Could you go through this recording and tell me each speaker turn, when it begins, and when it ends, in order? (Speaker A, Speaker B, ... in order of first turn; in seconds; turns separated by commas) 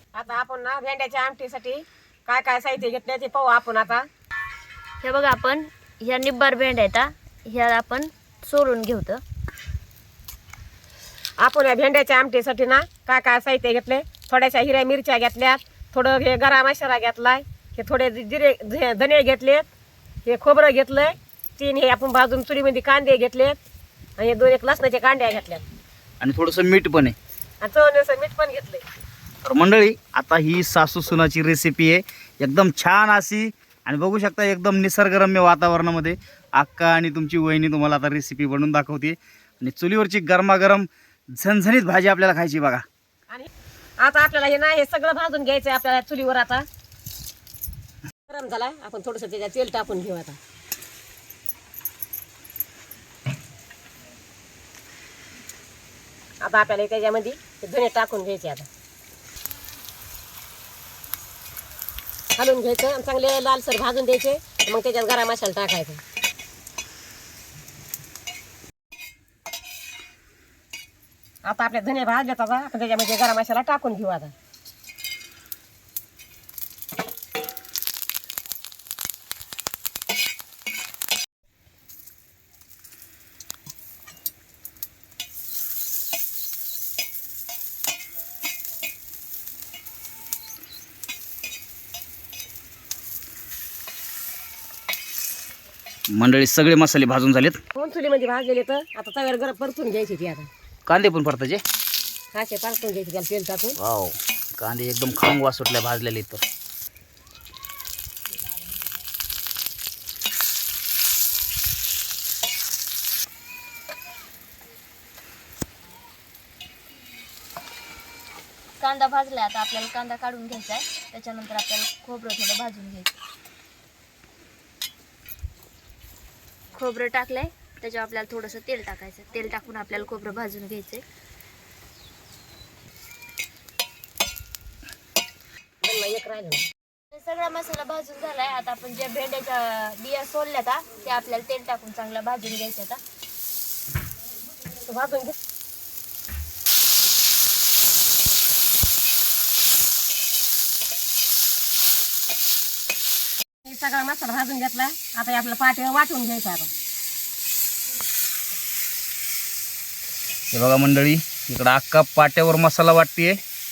Speaker A: 0.1-4.0, Speaker B: 5.0-9.2, Speaker A: 11.4-19.7, Speaker A: 20.2-23.6, Speaker A: 24.2-25.6, Speaker C: 26.2-27.1, Speaker A: 27.6-28.8, Speaker C: 29.4-42.8, Speaker A: 44.0-46.6, Speaker A: 48.3-50.4, Speaker A: 56.4-58.7, Speaker A: 62.4-66.0, Speaker A: 71.4-74.3, Speaker C: 96.1-97.6, Speaker A: 97.7-100.5, Speaker C: 100.9-101.6, Speaker A: 102.3-103.8, Speaker C: 103.8-106.4, Speaker B: 118.8-123.2, Speaker B: 126.8-131.0, Speaker A: 135.8-136.6, Speaker B: 137.1-143.0, Speaker A: 144.8-145.3, Speaker A: 153.6-156.7, Speaker C: 160.5-163.4